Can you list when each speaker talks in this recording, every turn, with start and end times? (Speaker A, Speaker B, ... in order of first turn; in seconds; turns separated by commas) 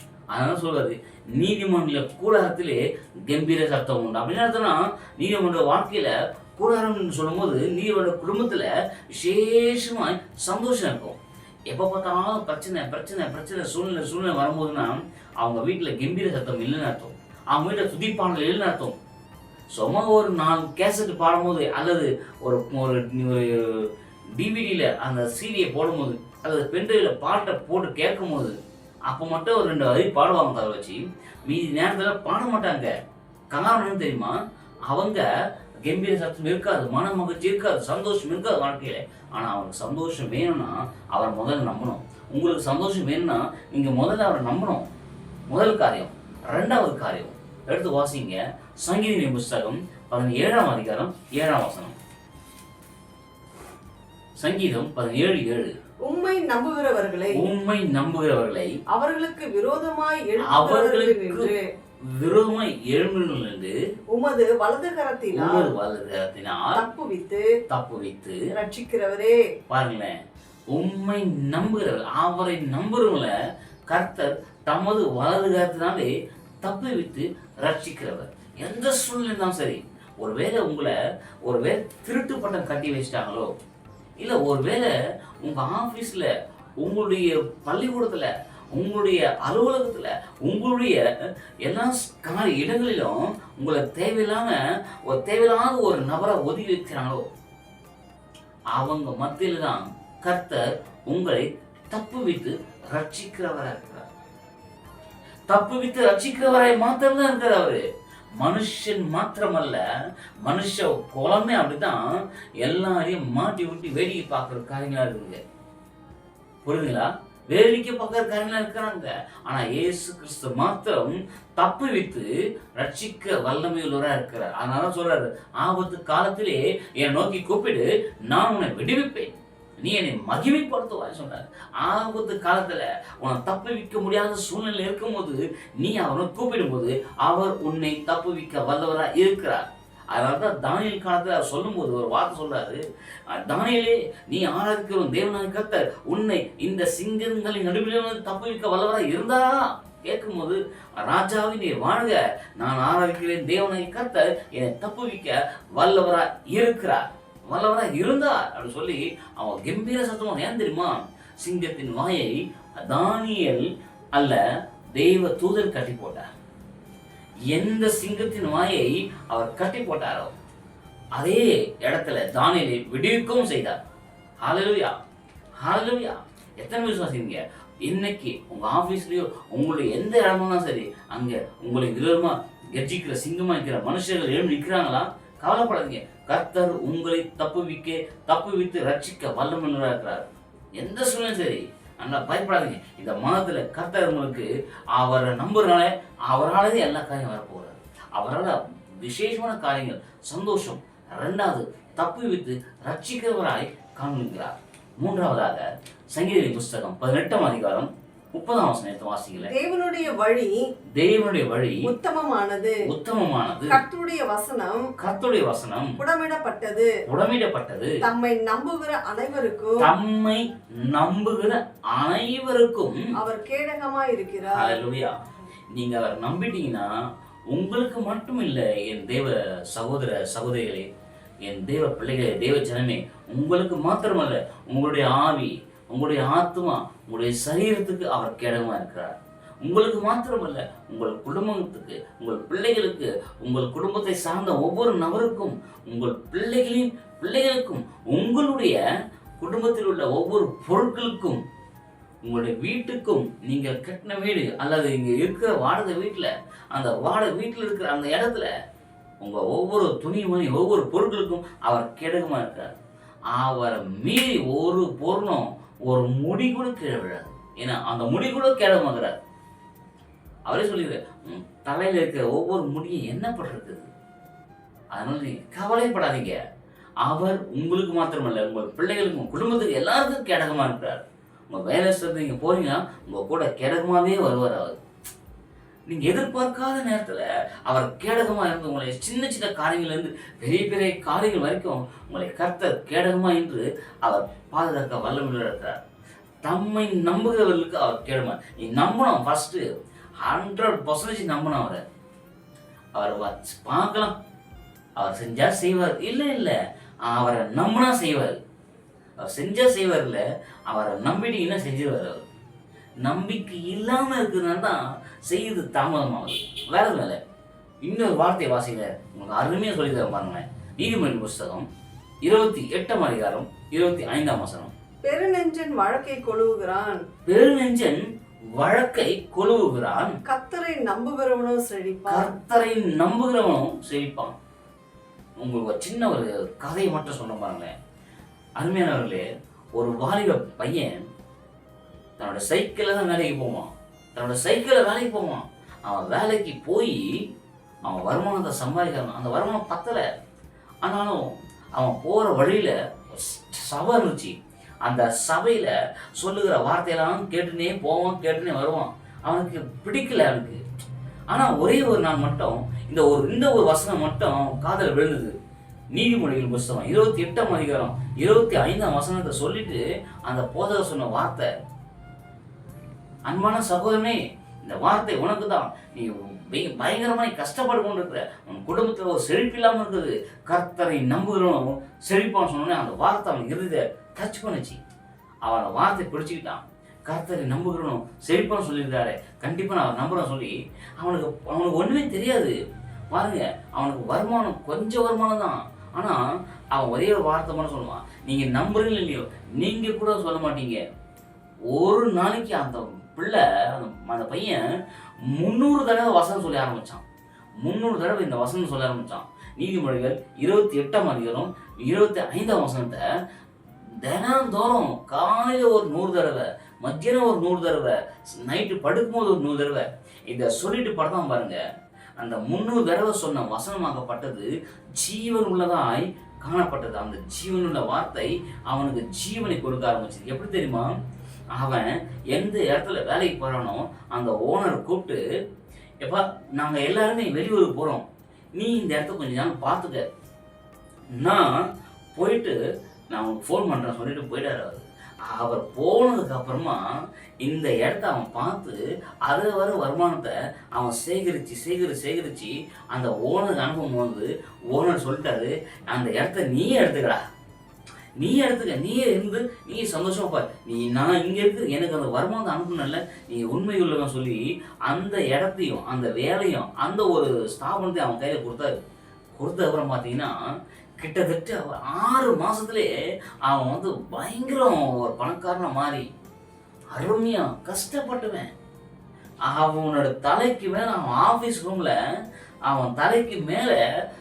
Speaker A: 0.3-11.2, Speaker A: 11.7-19.0, Speaker A: 19.7-28.6, Speaker A: 29.1-32.9, Speaker A: 33.5-34.3, Speaker A: 34.9-35.3, Speaker A: 35.8-44.8, Speaker A: 45.5-52.0, Speaker A: 54.4-55.8, Speaker B: 56.1-57.4, Speaker A: 57.3-58.7, Speaker B: 58.9-61.6, Speaker A: 60.4-63.8, Speaker B: 64.1-65.7, Speaker A: 65.3-66.8, Speaker B: 66.7-67.5, Speaker A: 67.7-68.4, Speaker B: 68.5-69.4, Speaker A: 69.7-70.2, Speaker A: 70.7-73.3, Speaker A: 73.9-76.1, Speaker A: 76.6-83.5, Speaker A: 84.2-91.0, Speaker A: 91.6-97.3, Speaker A: 98.7-104.1, Speaker A: 105.5-107.8, Speaker A: 108.4-109.8, Speaker A: 110.4-115.4, Speaker A: 116.6-164.4, Speaker A: 164.9-166.3, Speaker A: 167.5-170.3, Speaker A: 171.2-173.8, Speaker A: 174.4-174.9, Speaker A: 175.6-209.5, Speaker B: 209.4-210.6, Speaker A: 211.0-211.9, Speaker B: 211.8-212.8, Speaker A: 212.8-213.8, Speaker B: 213.7-214.9, Speaker A: 215.0-216.0, Speaker B: 216.0-216.9, Speaker A: 217.1-218.0, Speaker B: 218.0-219.9, Speaker A: 219.8-223.1, Speaker B: 223.2-224.8, Speaker A: 224.5-225.2, Speaker A: 225.7-226.9, Speaker A: 227.5-230.9, Speaker A: 231.4-248.8, Speaker A: 249.4-251.4, Speaker A: 252.2-258.5, Speaker A: 259.2-262.8, Speaker A: 263.3-269.2, Speaker A: 270.5-273.9, Speaker A: 274.9-276.4, Speaker A: 277.0-284.8, Speaker A: 285.9-295.8, Speaker A: 296.4-299.6, Speaker A: 300.2-301.8, Speaker A: 302.9-304.1, Speaker A: 305.0-308.4, Speaker A: 309.2-312.2, Speaker A: 313.0-317.2, Speaker A: 317.8-321.7, Speaker A: 322.2-324.7, Speaker B: 325.0-327.0, Speaker A: 327.2-330.2, Speaker B: 330.2-332.3, Speaker A: 332.1-334.4, Speaker A: 335.4-337.8, Speaker A: 338.6-340.9, Speaker A: 342.2-347.2, Speaker A: 347.8-350.1, Speaker A: 350.8-360.6, Speaker A: 361.3-365.4, Speaker A: 365.9-371.5, Speaker A: 373.3-384.8, Speaker A: 385.4-392.5, Speaker A: 393.1-396.2, Speaker A: 396.7-400.8, Speaker A: 401.7-404.6, Speaker A: 405.2-407.0, Speaker A: 407.6-413.1, Speaker A: 413.8-421.6, Speaker A: 422.2-430.9, Speaker A: 431.5-435.2, Speaker A: 436.0-440.1, Speaker A: 441.1-442.6, Speaker A: 443.1-446.8, Speaker A: 447.4-457.2, Speaker A: 458.2-468.8, Speaker A: 469.3-470.4, Speaker A: 471.0-472.9, Speaker A: 473.4-476.1, Speaker A: 476.9-478.5, Speaker A: 479.5-482.0, Speaker A: 482.7-483.8